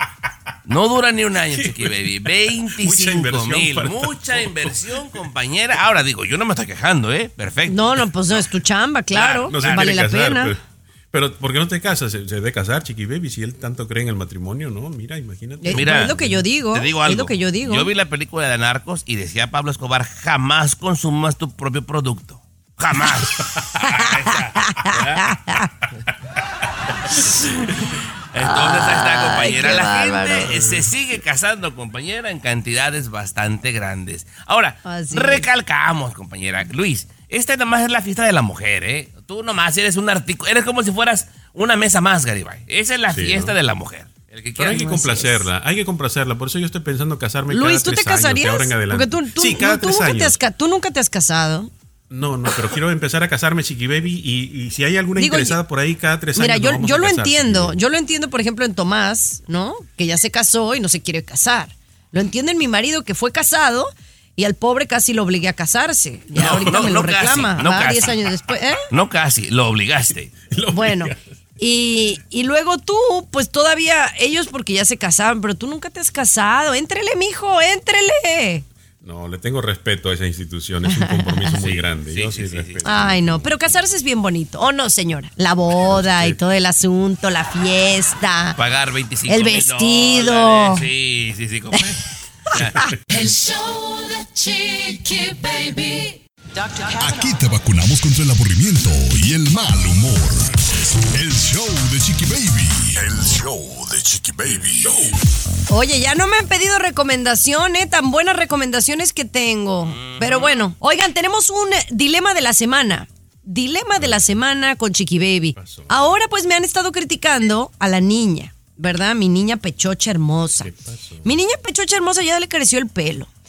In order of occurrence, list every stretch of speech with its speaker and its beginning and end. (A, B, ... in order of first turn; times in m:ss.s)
0:00.7-0:08.0 A
0:01.5-0:02.0 B
0:02.6-0:04.7 B
0:07.7-0:10.5 C
0:09.1-0:09.7 A
0:09.4-0:10.6 B
0:11.1-0:16.5 B
0:15.6-0:17.9 C
0:15.7-0:16.2 A
0:16.7-0:25.4 A
0:23.8-0:25.7 C
0:28.3-0:44.9 A
0:28.4-0:30.5 C
0:34.8-0:35.5 C
0:43.1-0:43.5 B
0:44.6-0:50.4 B
0:44.6-0:45.4 C
0:47.5-0:51.7 C
0:52.1-0:57.8 B
0:55.2-0:55.6 C
0:56.4-1:08.8 C
1:06.4-1:08.2 A
1:08.9-1:10.3 A
1:10.5-1:11.2 B
1:10.7-1:18.6 C
1:19.0-1:23.5 B
1:20.8-1:21.5 C
1:21.6-1:22.8 A
1:22.8-1:28.6 C
1:25.8-1:26.4 B
1:28.6-1:32.8 A
1:29.3-1:30.9 C
1:32.5-1:32.9 C
1:33.1-1:36.2 D
1:36.9-1:45.0 E
1:45.7-2:00.7 C
1:55.6-1:56.1 B
2:00.6-2:01.3 B
2:01.2-2:03.3 C